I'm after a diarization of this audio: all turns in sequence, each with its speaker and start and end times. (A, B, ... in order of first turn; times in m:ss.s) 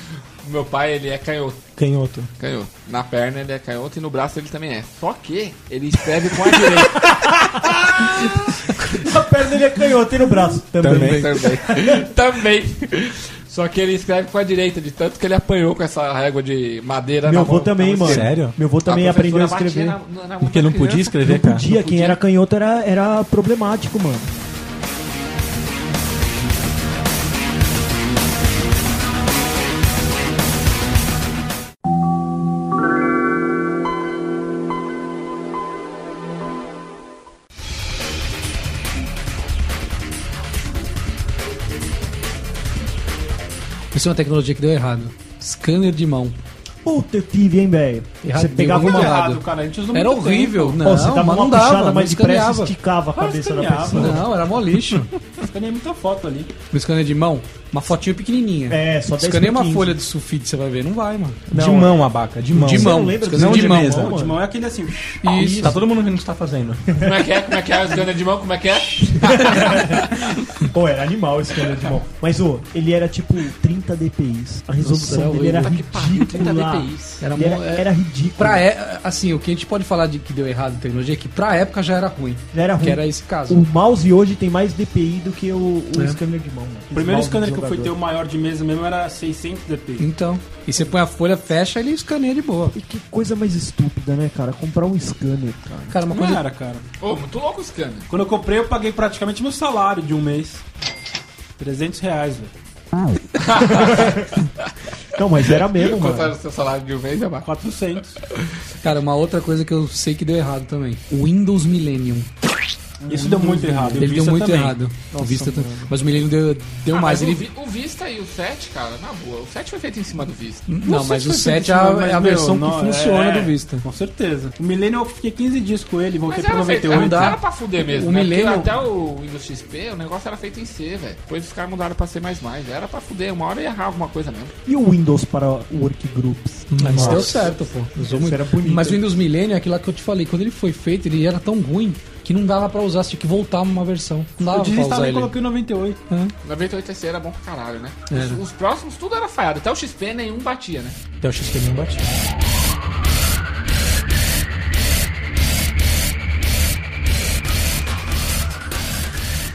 0:00.4-0:01.7 A
0:01.8-0:02.3 B
0:02.4-0:09.0 A
0:06.8-0:12.1 C
0:10.8-0:11.3 B
0:10.8-0:18.3 A
0:17.2-0:20.0 C
0:18.0-0:18.6 B
0:18.9-0:22.2 A
0:20.4-0:21.7 B
0:21.2-0:24.3 C
0:43.9-0:46.4 D
0:46.8-0:49.2 C
0:48.2-0:52.7 D
0:48.6-0:50.8 E
0:50.8-0:54.3 C
0:53.2-0:54.3 E
0:53.9-0:55.1 D
0:55.4-0:56.6 E
0:56.7-1:01.8 D
0:58.7-1:00.0 C
1:01.5-1:04.1 B
1:02.6-1:04.1 D
1:02.6-1:04.4 C
1:03.7-1:05.7 E
1:05.2-1:05.8 D
1:05.4-1:06.9 B
1:05.4-1:05.7 C
1:06.9-1:07.3 C
1:07.0-1:10.2 A
1:09.2-1:18.6 C
1:14.8-1:15.8 D
1:15.5-1:17.2 A
1:17.2-1:23.6 D
1:22.5-1:27.9 C
1:25.9-1:26.2 D
1:26.9-1:30.1 E
1:30.0-1:32.8 D
1:32.7-1:36.0 C
1:35.9-1:36.4 D
1:36.1-1:36.8 E
1:37.0-1:38.1 A
1:38.1-1:40.6 E
1:41.6-1:42.5 E
1:43.4-1:44.7 A
1:43.7-1:44.3 C
1:45.2-1:46.4 C
1:45.5-1:47.5 A
1:47.4-1:48.2 E
1:48.8-1:52.3 D
1:53.0-1:54.6 E
1:53.1-1:54.8 B
1:53.4-1:57.4 D
1:55.1-1:55.9 C
1:56.9-2:00.7 A
2:00.7-2:03.8 D
2:00.8-2:07.4 E
2:06.3-2:14.5 A
2:06.9-2:08.7 D
2:14.7-2:17.2 C
2:16.7-2:17.4 B
2:16.8-2:25.3 D
2:17.0-2:17.6 A
2:18.0-2:19.1 C
2:24.4-2:26.0 E
2:26.1-2:26.3 D
2:26.4-2:31.0 A
2:28.1-2:28.4 D
2:31.2-2:32.1 B